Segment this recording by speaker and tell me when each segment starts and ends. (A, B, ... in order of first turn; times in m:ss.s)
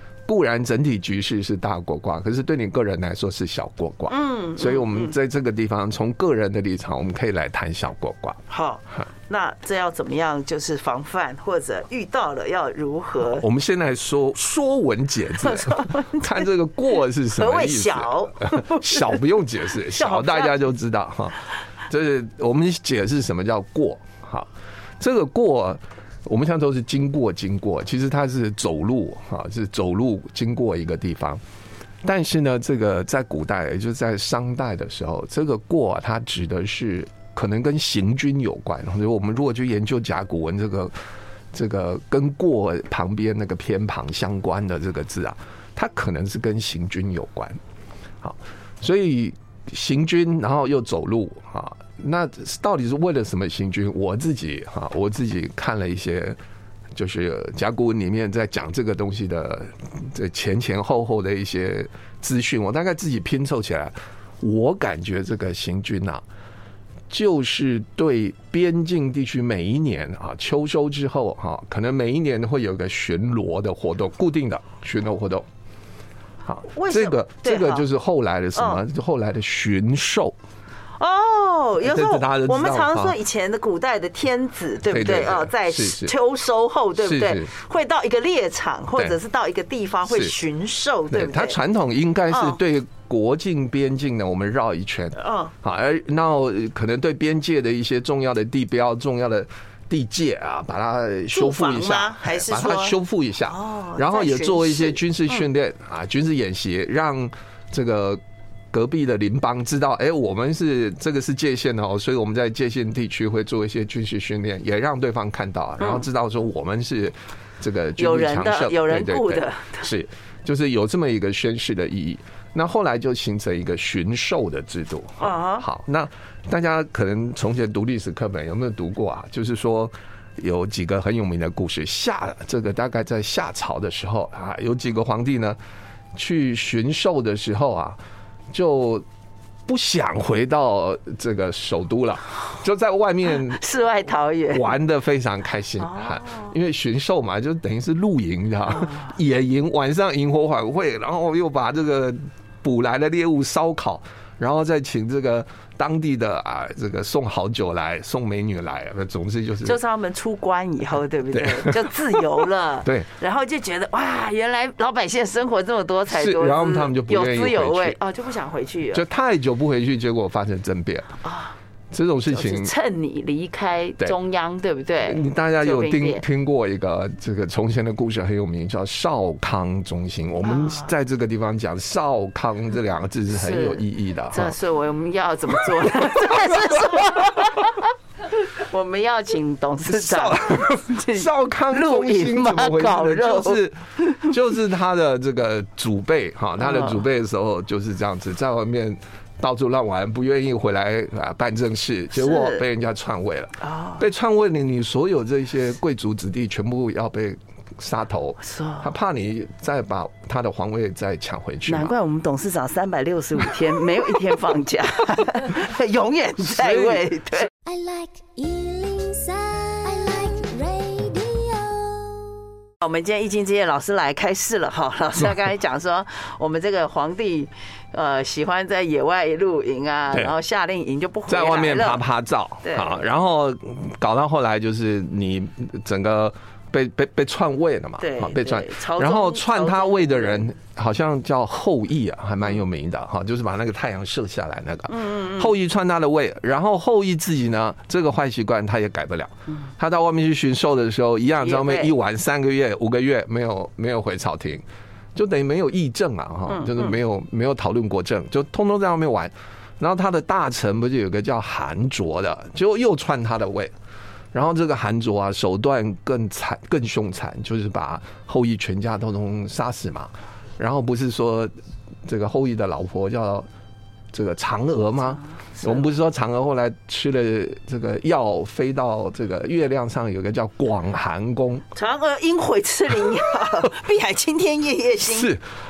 0:00.2-0:08.4 A
0:04.1-0:05.1 B
0:08.5-0:13.4 B
0:13.3-0:31.4 A
0:15.4-0:16.4 B
0:17.3-0:19.2 B
0:19.9-0:20.6 B
0:32.0-0:40.9 A
0:41.5-0:47.6 A
0:48.2-0:56.4 A
0:56.9-1:06.2 A
1:07.1-1:15.5 A
1:16.4-1:20.4 A
1:16.7-1:17.8 B
1:18.6-1:18.8 B
1:21.0-1:31.6 B
1:21.8-1:23.2 A
1:24.9-1:26.1 A
1:27.0-1:27.5 A
1:30.1-1:30.3 A
1:31.1-2:15.6 A
1:32.3-1:32.6 B
1:35.2-1:35.5 B
1:41.3-1:45.4 B
1:58.0-1:59.9 B
2:05.2-2:05.6 B
2:16.1-2:18.0 A
2:18.5-2:19.0 A
2:19.7-2:23.6 A
2:23.5-2:24.7 B
2:24.5-2:39.8 A
2:25.8-2:26.5 B
2:28.7-2:29.1 B
2:39.6-2:49.0 B
2:41.3-2:42.2 A
2:46.1-2:48.0 A
2:48.9-2:51.2 A
2:51.2-2:51.5 B
2:51.9-2:52.7 A
2:52.3-2:56.2 B
2:55.0-3:04.6 A
3:00.4-3:00.9 B
3:03.3-3:14.3 B
3:05.8-3:07.4 A
3:09.8-3:31.9 A
3:16.6-3:17.0 B
3:22.1-3:22.6 B
3:23.6-3:24.0 B
3:28.4-3:28.9 B
3:31.7-3:37.5 B
3:36.4-3:37.2 A
3:37.6-3:42.4 C
3:42.8-3:52.0 B
3:51.3-4:23.7 A
3:52.6-3:53.0 B
3:58.0-4:00.5 B
4:04.9-4:05.5 B
4:11.4-4:11.9 B
4:16.5-4:16.9 B
4:24.3-4:31.5 A
4:32.0-4:33.5 A
4:34.1-4:41.6 A
4:35.6-4:35.8 B
4:41.7-4:45.3 B
4:45.0-4:45.4 A